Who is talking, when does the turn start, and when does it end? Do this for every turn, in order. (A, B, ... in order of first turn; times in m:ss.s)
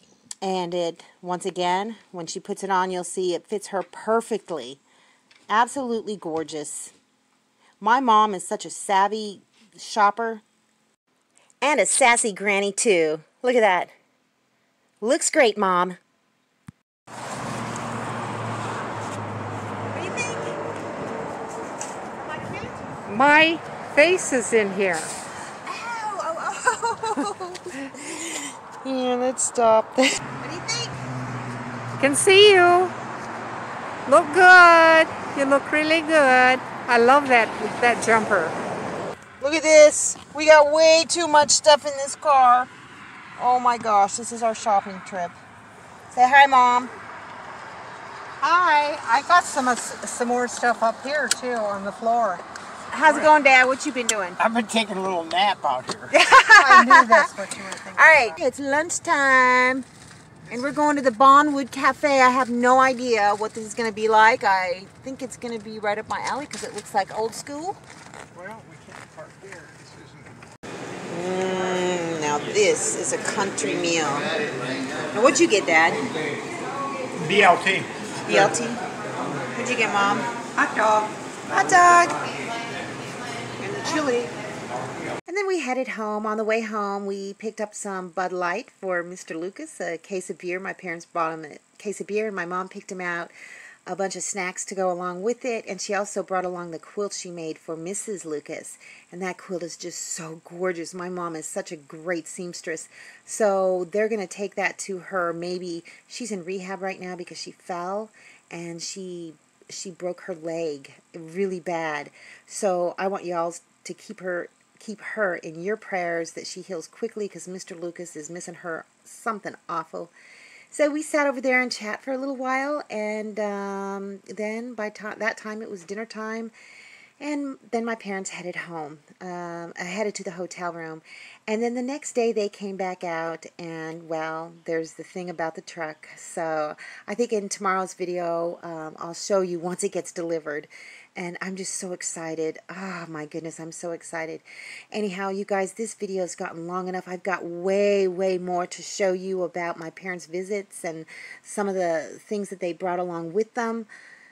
0:00.4-0:04.8 A
0:05.5-0:06.9 A
0:07.8-0:10.4 A
0:11.6-0:13.9 A
0:15.0-0:16.0 A
0:19.9-0:20.6 A
0:22.2-0:23.0 A
0:23.1-0:25.1 B
0:25.7-0:30.9 A
0:32.0-0:32.9 B
0:34.1-0:38.6 B
0:39.4-0:42.7 A
0:43.4-0:45.4 A
0:46.1-0:46.9 A
0:48.4-0:52.4 B
0:52.9-0:54.4 A
0:54.4-0:56.1 C
0:56.1-0:57.3 A
0:56.5-0:58.4 B
0:57.9-0:59.9 A
1:00.5-1:07.8 A
1:08.3-1:10.3 C
1:11.1-1:14.3 A
1:15.1-1:16.0 A
1:17.3-1:17.9 C
1:18.3-1:18.8 A
1:19.6-1:20.3 A
1:21.0-1:22.2 A
1:23.6-1:24.3 A
1:25.3-1:33.3 A
1:33.9-2:00.1 A
2:00.7-2:06.5 A
2:07.2-2:33.9 A